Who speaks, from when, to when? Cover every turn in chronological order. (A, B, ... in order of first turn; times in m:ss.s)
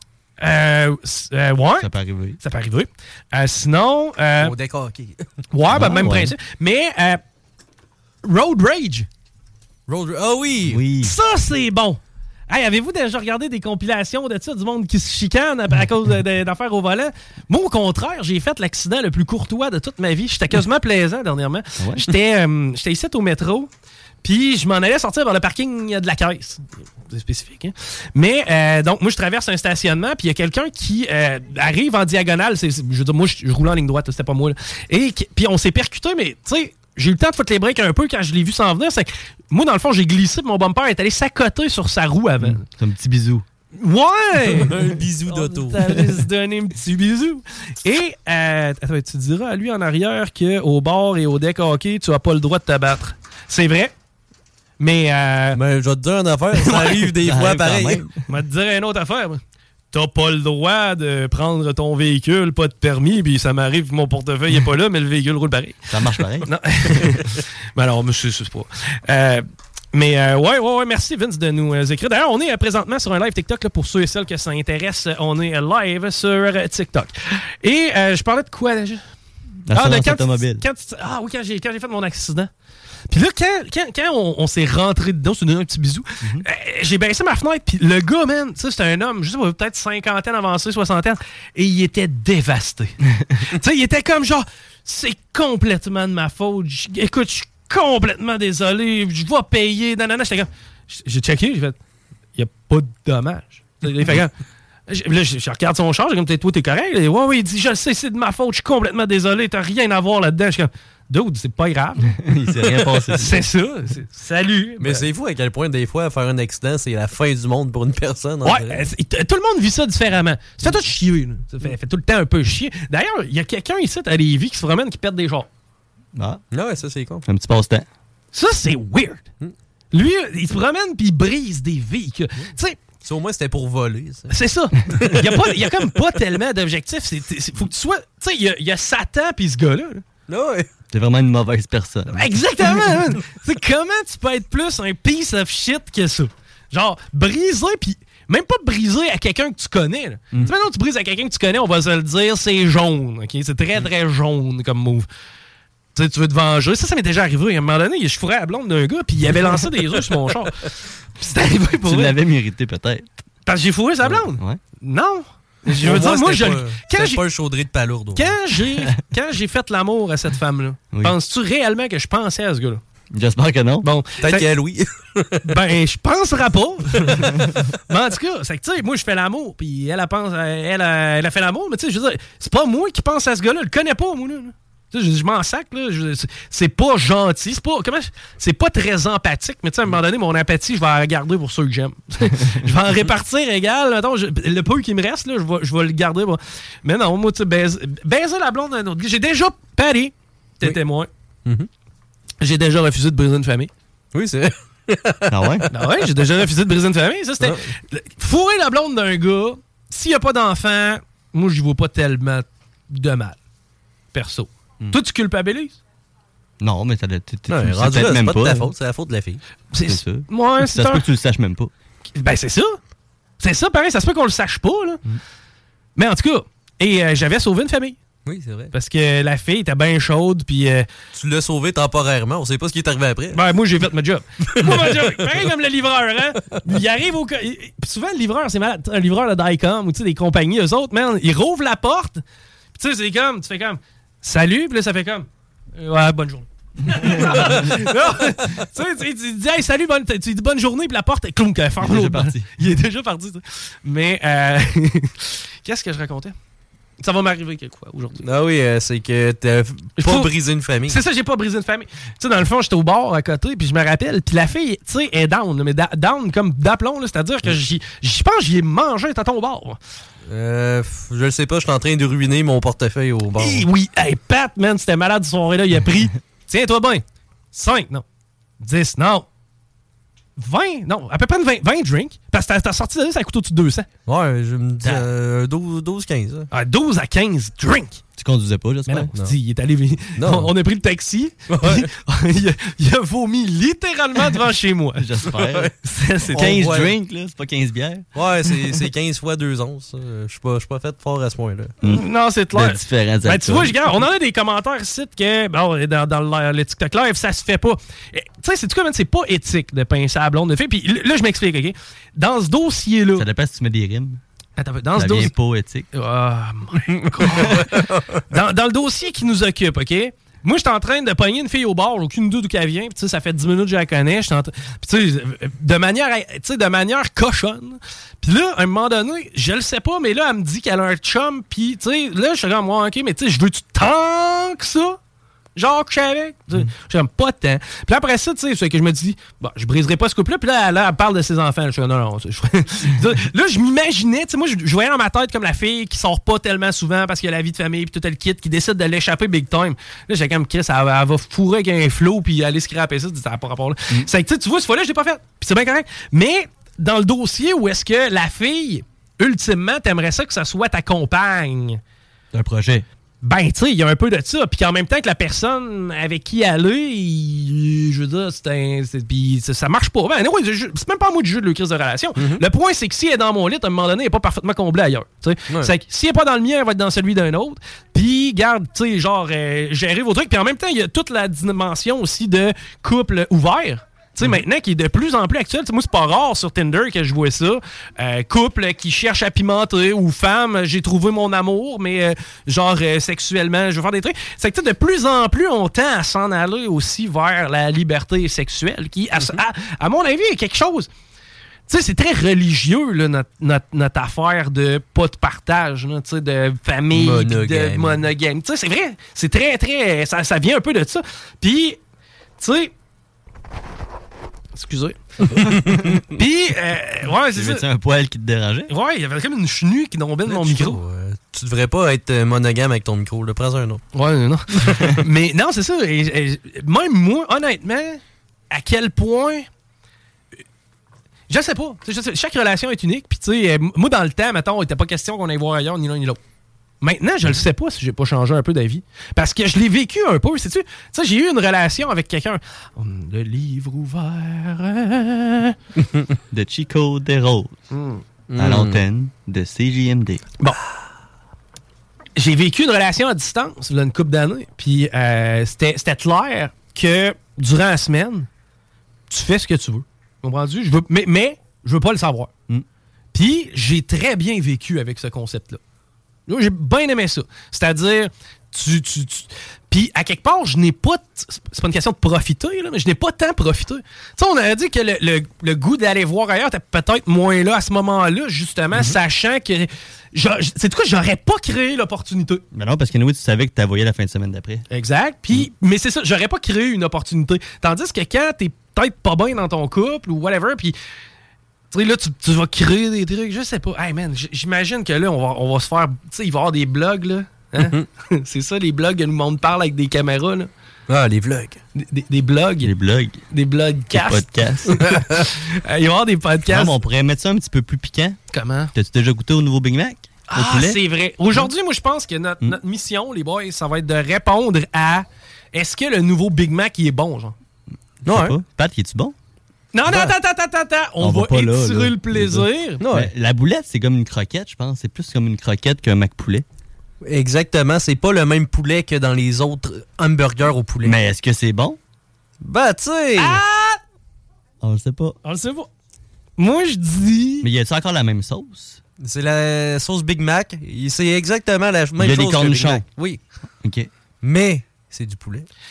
0:00.4-0:01.9 A
0:01.8-0:02.4 B
0:02.4-0:04.5 A
0:04.4-0:05.2 C
0:05.5-0:07.2 A
0:05.7-0:06.3 B
0:08.2-0:09.1 A
0:09.9-0:10.8 C
0:10.7-0:11.1 B
0:11.0-0:23.7 A
0:21.8-0:22.1 B
0:24.2-0:42.6 A
0:42.4-0:43.4 B
0:43.7-0:53.9 A
0:44.5-0:46.1 C
0:54.8-0:55.6 A
0:55.5-0:58.0 C
0:56.5-0:57.1 A
0:57.2-0:58.1 B
0:58.3-0:59.4 A
0:59.9-1:19.0 A
1:05.9-1:06.5 B
1:19.7-1:20.6 B
1:19.7-1:22.5 A
1:23.1-1:32.9 A
1:33.5-1:41.8 A
1:42.4-1:44.3 A
1:44.9-1:52.1 A
1:52.2-1:53.4 B
1:53.1-1:55.0 A
1:54.8-1:58.8 C
1:58.4-2:05.5 A
2:06.1-2:06.4 B
2:06.5-2:07.2 C
2:07.2-2:07.9 B
2:08.3-2:09.2 A
2:09.9-2:12.8 A
2:13.0-2:14.3 C
2:14.3-2:20.0 A
2:15.0-2:15.3 C
2:20.3-2:20.7 C
2:20.9-2:22.3 B
2:22.1-2:35.0 A
2:36.0-2:40.5 A
2:41.2-2:42.2 A
2:41.8-2:43.2 B
2:43.4-2:47.2 A
2:44.0-2:44.6 B
2:45.7-2:48.3 C
2:48.1-2:52.8 A
2:53.1-2:53.9 B
2:53.8-2:54.4 A
2:54.2-2:55.4 C
2:55.4-2:57.4 A
2:57.9-3:21.1 A
3:22.4-3:23.7 A
3:24.1-3:25.3 C
3:25.3-3:25.6 B
3:25.7-3:33.4 A
3:34.1-3:35.8 A
3:36.6-3:38.7 B
3:37.5-3:39.4 C
3:39.7-3:41.0 A
3:39.8-3:41.7 B
3:42.2-3:42.8 A
3:43.4-3:45.0 A
3:46.0-3:48.0 A
3:48.2-3:48.7 C
3:48.7-3:50.9 A
3:51.1-3:53.4 C
3:53.3-4:02.2 A
3:54.6-3:55.0 C
4:02.8-4:16.3 A
4:07.0-4:07.4 B
4:11.8-4:12.5 B
4:17.0-4:18.2 A
4:18.2-4:21.0 C
4:20.0-4:20.3 A
4:20.9-4:29.8 A
4:30.3-4:33.7 C
4:33.4-4:38.0 A
4:38.6-4:39.2 A
4:40.4-4:43.9 A
4:44.1-4:46.5 C
4:46.5-4:48.0 A
4:48.2-4:49.1 B
4:48.9-4:55.1 A
4:50.2-4:50.5 C
4:51.5-4:51.9 C
4:55.0-4:55.7 B
4:55.8-4:56.5 A
4:56.3-4:58.1 B
4:56.4-4:56.9 C
4:58.1-5:01.7 C
5:01.8-5:03.8 B
5:01.9-5:13.2 A
5:13.1-5:14.2 B
5:14.6-5:15.3 A
5:15.0-5:15.8 B
5:15.9-5:35.0 A
5:35.6-6:01.8 A
6:02.3-6:02.8 B
6:03.2-6:40.9 A
6:12.2-6:12.4 C
6:41.7-6:51.8 A
6:46.9-6:48.0 C
6:52.4-6:52.7 A
6:54.5-6:55.0 A
6:56.1-6:57.6 A
6:57.3-6:58.7 B
6:58.7-7:00.8 A
7:00.3-7:03.8 C
7:03.9-7:09.5 A
7:11.3-7:16.2 A
7:16.8-7:25.5 A
7:26.3-7:27.6 B
7:27.7-7:28.0 A
7:28.3-7:28.8 C
7:28.4-7:30.2 B
7:32.2-7:38.3 A
7:39.1-7:42.3 A
7:43.1-7:45.6 A
7:46.3-8:02.4 A
8:02.5-8:04.6 B
8:04.7-8:10.7 A
8:11.7-8:20.5 A
8:17.6-8:17.8 C
8:20.9-8:21.6 C
8:21.8-8:22.7 A
8:22.6-8:23.2 B
8:23.3-8:26.7 A
8:23.9-8:24.8 B
8:26.5-8:28.2 B
8:28.3-8:28.7 A
8:28.7-8:30.6 B
8:30.3-8:37.3 A
8:38.0-8:39.1 B
8:38.1-8:38.4 C
8:39.7-8:42.8 A
8:39.9-8:40.1 C
8:41.0-8:46.4 B
8:42.8-8:43.1 C
8:47.0-8:51.0 C
8:50.8-8:51.8 B
8:52.4-8:53.4 C
8:53.2-8:53.8 A
8:54.6-8:55.2 B
8:55.2-8:55.7 A
8:56.4-8:57.5 A
8:57.4-8:58.8 B
8:59.0-9:03.2 C
9:02.0-9:02.8 B
9:03.6-9:03.9 B
9:04.2-9:05.5 C